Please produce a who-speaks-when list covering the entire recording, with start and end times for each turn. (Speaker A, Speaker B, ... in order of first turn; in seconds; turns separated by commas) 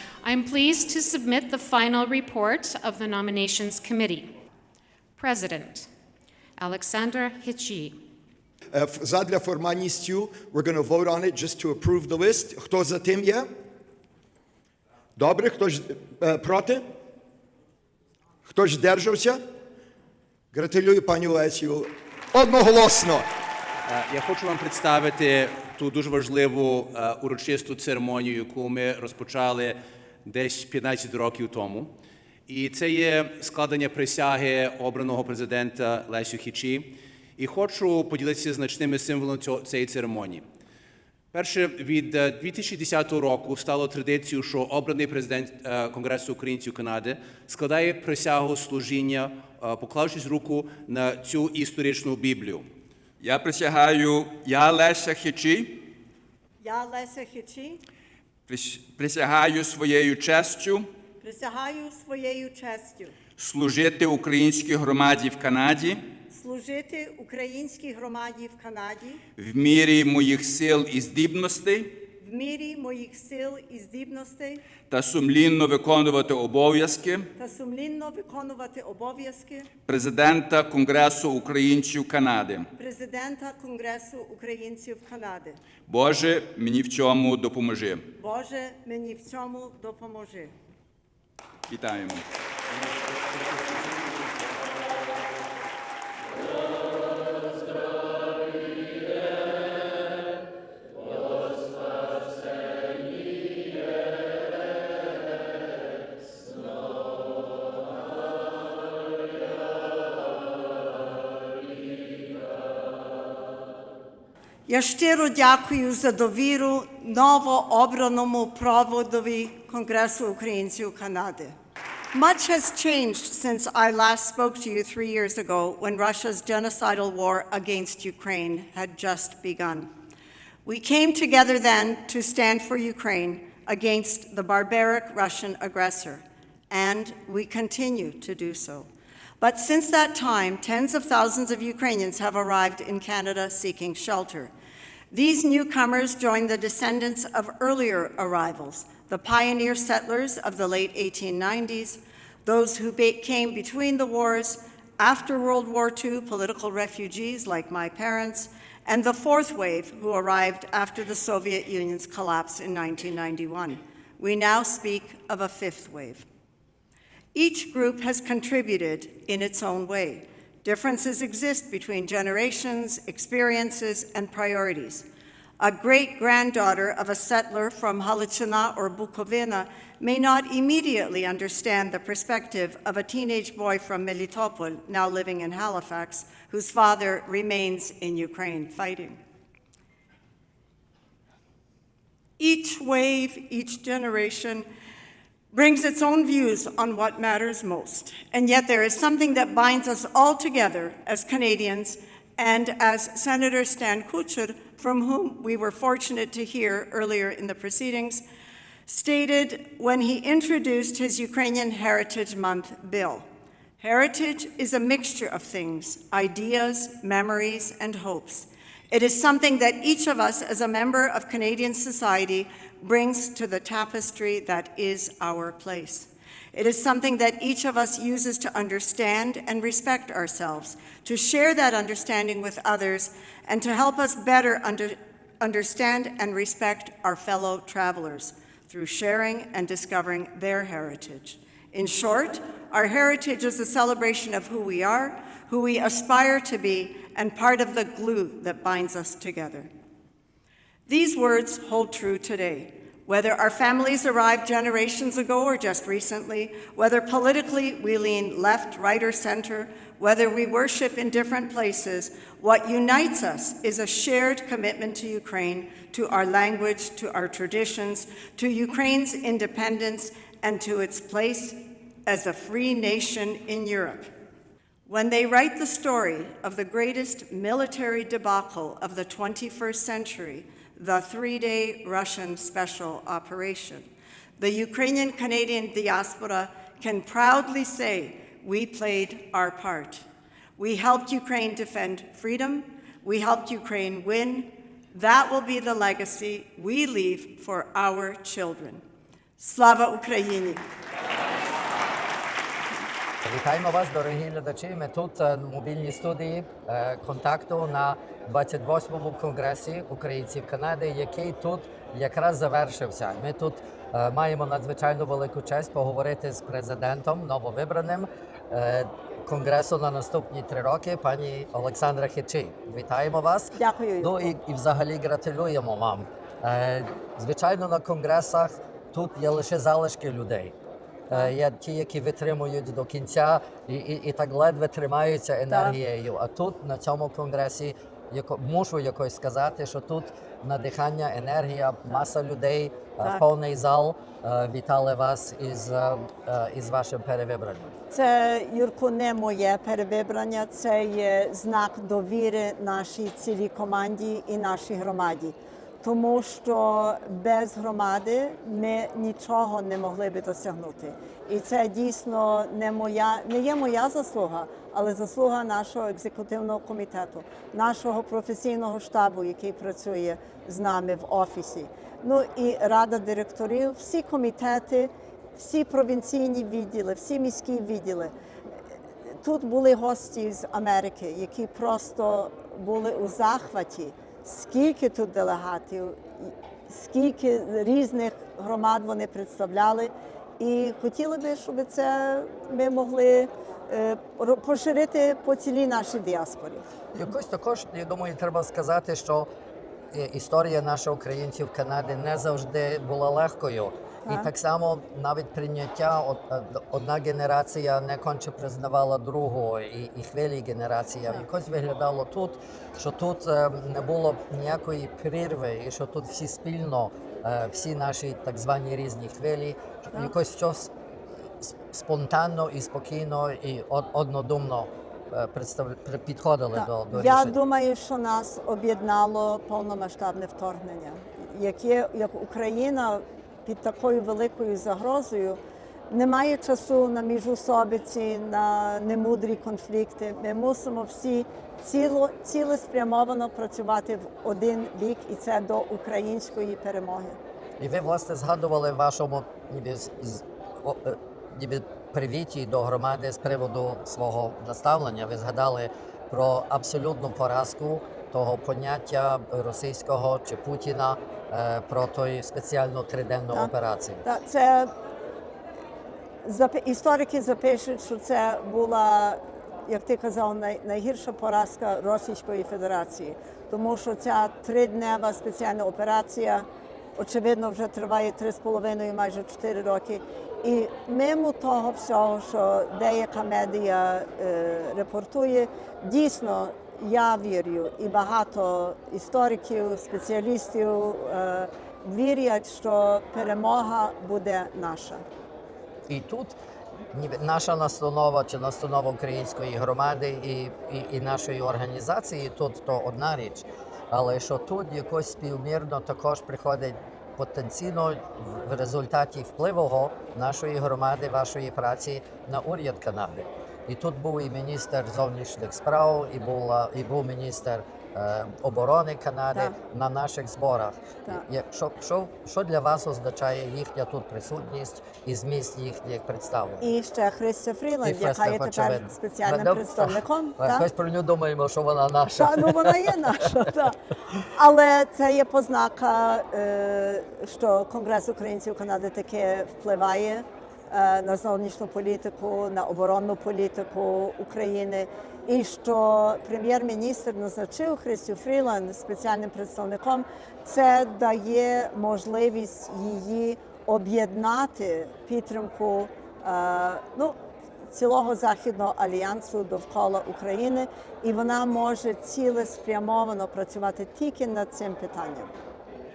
Speaker A: 0.2-4.3, Speaker A: 5.2-5.9, Speaker A: 6.6-8.0, Speaker B: 8.8-13.4, Speaker B: 15.2-16.8, Speaker B: 18.5-19.4, Speaker B: 20.5-21.8, Speaker B: 22.4-23.2, Speaker C: 23.9-31.9, Speaker C: 32.5-40.4, Speaker C: 41.3-52.6, Speaker D: 53.2-55.8, Speaker E: 56.6-57.8, Speaker D: 58.5-60.9, Speaker E: 61.2-63.1, Speaker D: 63.4-66.0, Speaker E: 66.3-69.2, Speaker D: 69.4-71.9, Speaker E: 72.2-74.6, Speaker D: 74.9-77.3, Speaker E: 77.3-79.7, Speaker D: 79.9-82.7, Speaker E: 82.8-85.6, Speaker D: 85.9-88.0, Speaker E: 88.2-90.5, Speaker D: 91.7-92.2, Speaker E: 114.7-121.5, Speaker E: 122.1-129.9, Speaker E: 130.6-138.9, Speaker E: 139.4-144.5, Speaker E: 145.1-166.2, Speaker E: 167.3-175.1, Speaker E: 175.6-189.2, Speaker E: 192.4-194.7, Speaker E: 195.5-208.2, Speaker E: 208.8-213.2, Speaker E: 213.8-249.7, Speaker E: 250.9-274.1, Speaker E: 274.9-290.1, Speaker E: 290.6-298.8, Speaker E: 299.4-300.6, Speaker F: 303.2-330.5, Speaker E: 323.6-324.3, Speaker F: 331.1-347.7, Speaker E: 347.9-378.1, Speaker E: 379.1-396.7, Speaker F: 396.9-399.3, Speaker F: 399.9-420.7, Speaker F: 421.4-427.4, Speaker E: 426.5-435.4, Speaker E: 435.9-447.2, Speaker F: 447.6-464.0, Speaker E: 464.0-464.7, Speaker E: 466.2-495.0, Speaker F: 495.9-496.4, Speaker F: 496.9-526.7, Speaker E: 526.6-530.7, Speaker F: 527.8-533.0, Speaker E: 532.2-557.1, Speaker E: 557.7-565.3